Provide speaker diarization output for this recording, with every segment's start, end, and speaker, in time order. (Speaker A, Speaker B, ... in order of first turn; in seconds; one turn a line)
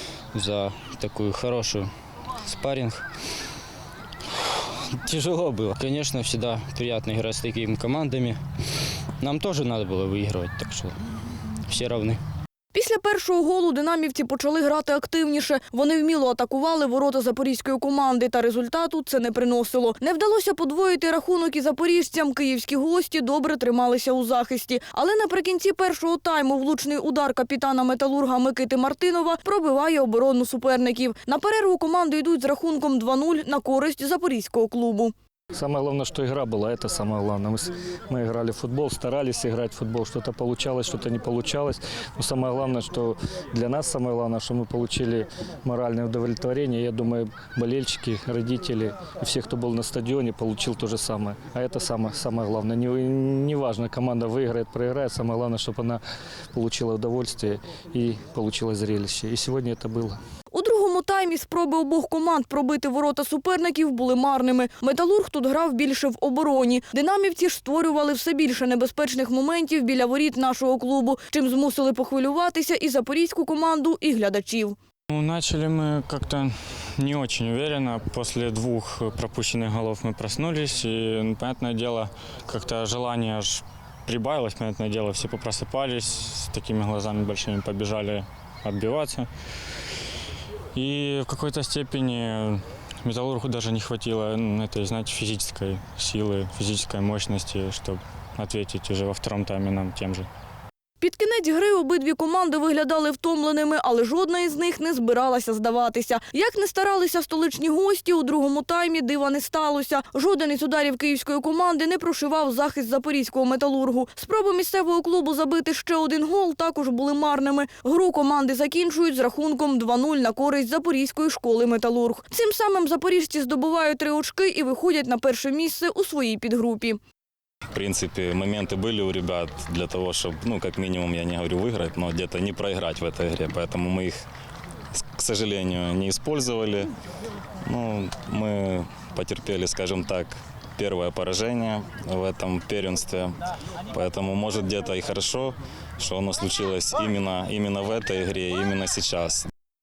Speaker A: 0.3-3.0
Speaker A: 5.0-8.4
Speaker A: 9.2-12.2
Speaker B: 12.7-35.1
Speaker C: 35.5-56.0
Speaker C: 56.5-60.2
Speaker B: 60.5-74.8
Speaker D: 75.1-89.3
Speaker D: 90.7-100.3
Speaker B: 101.0-127.0
Speaker E: 127.7-134.2
Speaker E: 135.0-136.9
Speaker E: 137.6-143.3
Speaker E: 143.9-149.5